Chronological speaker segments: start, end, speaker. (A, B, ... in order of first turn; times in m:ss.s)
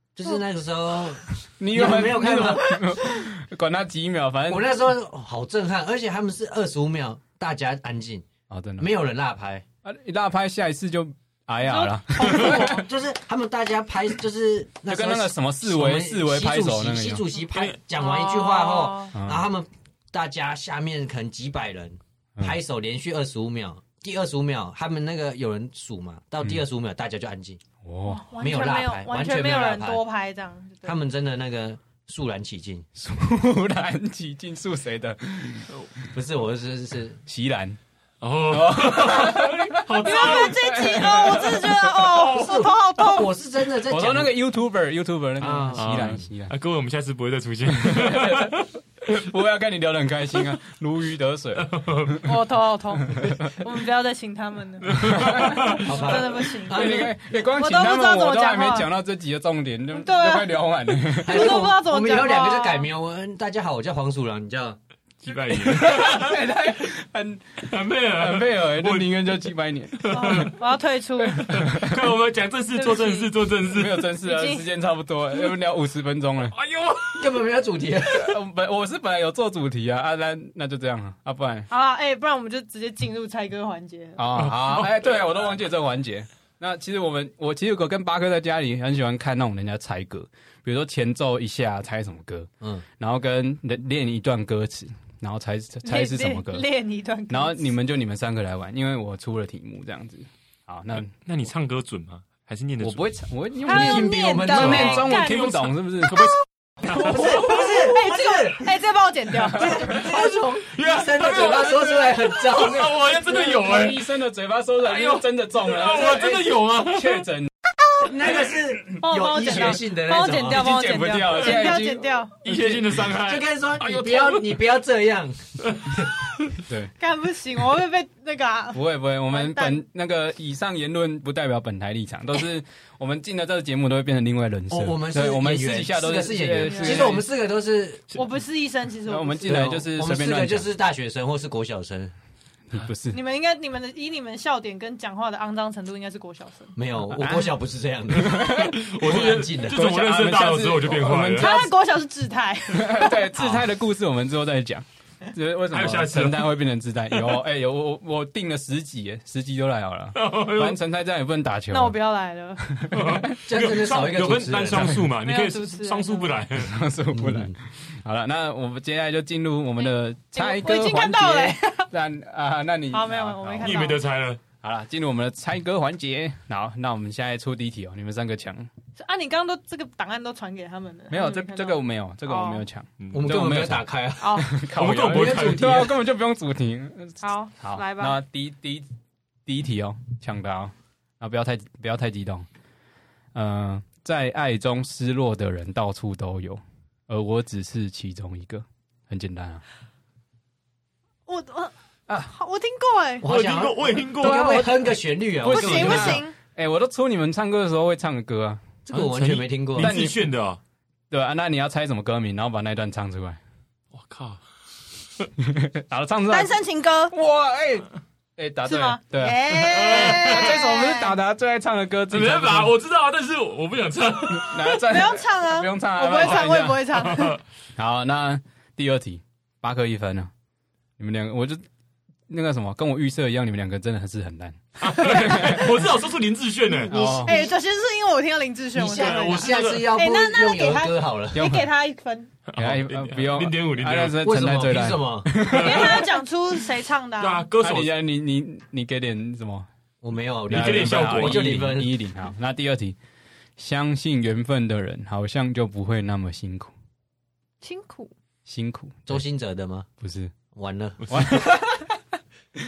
0:00.2-0:03.0 A
0:01.6-0:04.7 B
0:04.5-0:08.2 A
0:08.5-0:08.9 B
0:08.8-0:09.6 A
0:09.8-0:12.9 B
0:11.6-0:12.9 C
0:12.2-0:27.6 A
0:14.9-0:17.3 B
0:17.9-0:19.1 C
0:19.1-0:19.5 B
0:27.8-0:28.2 B
0:28.1-0:31.0 C
0:28.4-0:30.0 A
0:30.8-0:32.8 A
0:33.0-0:35.7 B
0:36.1-0:37.2 A
0:37.3-0:37.8 B
0:38.2-0:40.6 D
0:38.5-0:42.1 B
0:40.0-0:43.3 C
0:42.0-0:42.6 D
0:42.2-0:44.3 A
0:43.9-0:46.5 B
0:45.4-0:46.2 A
0:45.8-0:48.7 D
0:47.7-0:52.3 B
0:51.6-0:52.3 D
0:52.2-0:58.9 C
0:53.1-0:53.5 B
0:54.9-0:55.9 D
0:55.0-0:55.8 B
0:55.8-0:57.1 A
0:56.7-1:01.6 B
0:59.9-1:02.9 C
1:01.2-1:04.8 A
1:05.2-1:06.4 D
1:05.6-1:10.5 B
1:07.6-1:09.1 D
1:10.0-1:10.6 D
1:10.1-1:11.4 C
1:11.2-1:12.1 B
1:11.5-1:14.1 D
1:12.8-1:13.3 C
1:13.7-1:16.6 B
1:14.2-1:14.6 C
1:16.5-1:17.4 D
1:17.1-1:18.3 A
1:18.1-1:21.7 B
1:21.7-1:24.2 C
1:24.2-1:36.6 B
1:24.4-1:24.9 D
1:35.8-1:37.7 C
1:37.3-1:41.1 B
1:41.2-1:43.0 D
1:42.8-1:46.2 B
1:43.6-1:45.6 C
1:43.7-1:45.0 A
1:44.6-1:48.0 D
1:46.8-1:48.7 A
1:47.0-1:50.0 C
1:49.5-1:53.0 A
1:49.8-1:54.1 D
1:53.2-1:57.5 B
1:54.8-1:57.3 D
1:58.0-2:00.7 A
1:59.0-2:02.3 C
2:00.4-2:02.8 B
2:02.4-2:04.6 D
2:03.1-2:06.1 A
2:05.7-2:06.0 D
2:06.7-2:06.9 B
2:07.0-2:09.8 C
2:08.7-2:17.3 B
2:14.7-2:18.1 A
2:16.6-2:17.1 C
2:18.1-2:19.7 C
2:19.1-2:20.7 B
2:19.4-2:22.1 A
2:22.7-2:23.2 B
2:23.1-2:26.7 C
2:26.8-2:29.8 A
2:27.1-2:27.5 B
2:28.2-2:28.8 B
2:28.3-2:31.7 D
2:29.7-2:31.7 B
2:31.4-2:33.3 C
2:32.7-2:42.0 B
2:33.4-2:33.6 A
2:35.7-2:36.6 D
2:37.1-2:37.4 D
2:40.1-2:40.8 D
2:41.7-2:42.8 C
2:42.7-2:43.4 B
2:42.9-2:46.7 D
2:43.4-2:45.1 A
2:45.2-2:46.4 C
2:46.6-2:53.9 B
2:47.1-2:47.5 A
2:49.8-2:51.9 C
2:52.9-2:54.0 C
2:53.6-2:54.4 D
2:54.6-2:58.7 B
2:59.0-3:02.6 C
3:01.1-3:08.9 B
3:03.0-3:03.3 D
3:03.1-3:06.0 A
3:04.2-3:04.5 C
3:04.6-3:05.9 D
3:07.2-3:08.2 C
3:09.4-3:12.5 B
3:13.3-3:19.6 B
3:21.3-3:21.7 C
3:22.3-3:23.3 C
3:23.2-3:26.2 A
3:23.2-3:24.8 D
3:24.2-3:24.9 B
3:25.4-3:26.4 C
3:25.5-3:26.2 D
3:25.5-3:28.6 B
3:28.9-3:29.9 A
3:28.9-3:30.6 D
3:29.8-3:30.2 B
3:31.1-3:33.4 B
3:33.9-3:34.4 D
3:35.4-3:36.6 B
3:36.3-3:37.1 C
3:37.1-3:42.7 B
3:38.6-3:41.1 C
3:39.5-3:40.6 D
3:42.1-3:44.7 D
3:44.3-3:47.2 B
3:44.6-3:47.4 C
3:46.2-3:47.4 D
3:47.8-3:50.3 B
3:51.0-3:51.6 B
3:52.3-3:55.7 B
3:54.8-3:57.5 D
3:55.1-3:55.4 C
3:56.9-4:02.3 C
3:56.9-3:57.5 B
3:58.7-4:01.6 A
3:58.9-3:59.9 D
4:01.4-4:01.6 B
4:02.5-4:04.3 D
4:02.6-4:06.1 B
4:04.2-4:05.3 A
4:05.5-4:07.4 C
4:05.5-4:06.1 D
4:07.2-4:07.9 D
4:07.6-4:09.7 B
4:10.0-4:11.9 A
4:10.5-4:13.0 B
4:10.5-4:11.5 D
4:13.6-4:16.7 B
4:17.6-4:18.1 C
4:18.5-4:19.2 B
4:19.1-4:19.9 A
4:20.0-4:20.3 B
4:20.5-4:21.0 A
4:21.0-4:21.5 D
4:21.1-4:21.8 B